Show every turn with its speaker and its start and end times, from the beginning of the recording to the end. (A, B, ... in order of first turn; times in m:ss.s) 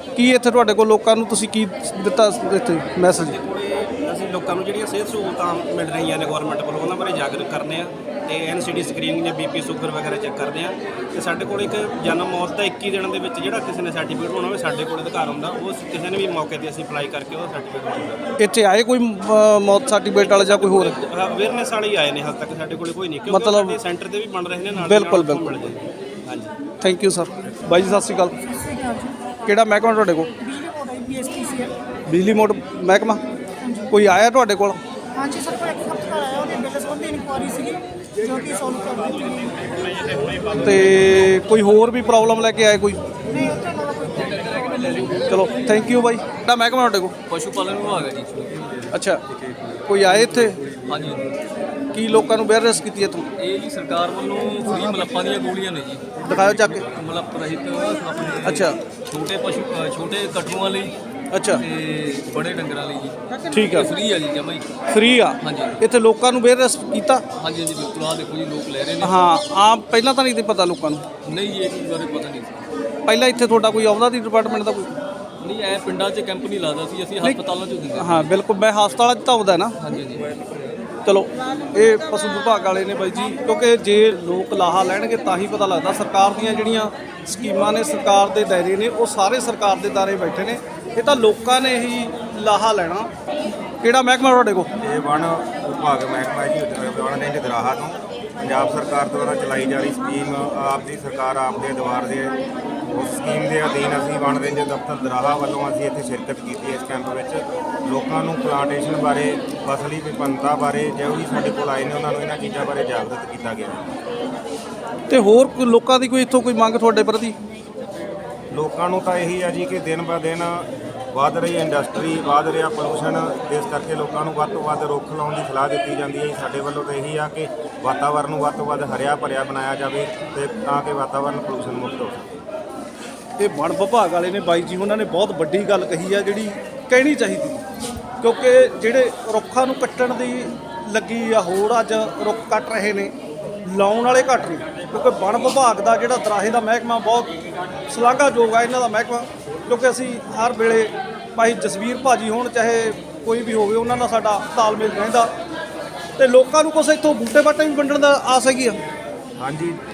0:00.1-0:03.4 A
0:03.3-0:18.1 B
0:18.4-0:20.9 A
0:20.7-0:26.5 B
0:23.3-0:23.8 A
0:24.7-0:25.6 A
0:26.8-0:28.3 A
0:28.4-0:29.1 C
0:29.4-0:30.3 A
0:30.4-0:31.7 C
0:32.1-0:33.2 A
0:33.9-0:34.8 A
0:35.2-0:39.6 C
0:40.6-0:43.0 A
0:43.3-0:44.1 C
0:44.1-0:45.8 D
0:45.2-0:47.1 A
0:47.3-0:51.3 D
0:48.9-0:49.2 A
0:49.9-0:50.6 A
0:51.9-0:53.2 A
0:53.4-1:00.9 D
0:56.2-0:56.8 A
0:58.4-0:58.8 A
1:01.3-1:01.6 A
1:01.6-1:04.6 D
1:03.5-1:03.9 A
1:04.9-1:07.2 A
1:05.4-1:05.8 D
1:07.4-1:09.2 D
1:09.0-1:11.0 A
1:11.2-1:12.6 D
1:13.1-1:14.9 A
1:15.4-1:18.3 D
1:18.0-1:19.7 A
1:19.8-1:20.3 D
1:21.0-1:33.1 A
1:33.8-1:34.7 A
1:34.8-1:53.8 E
1:55.1-1:57.3 A
1:58.5-2:12.3 E
2:13.4-2:17.6 A
2:18.2-2:23.1 A
2:23.6-2:27.3 A
2:27.9-2:35.3 A
2:36.2-2:38.8 A
2:39.4-2:39.8 E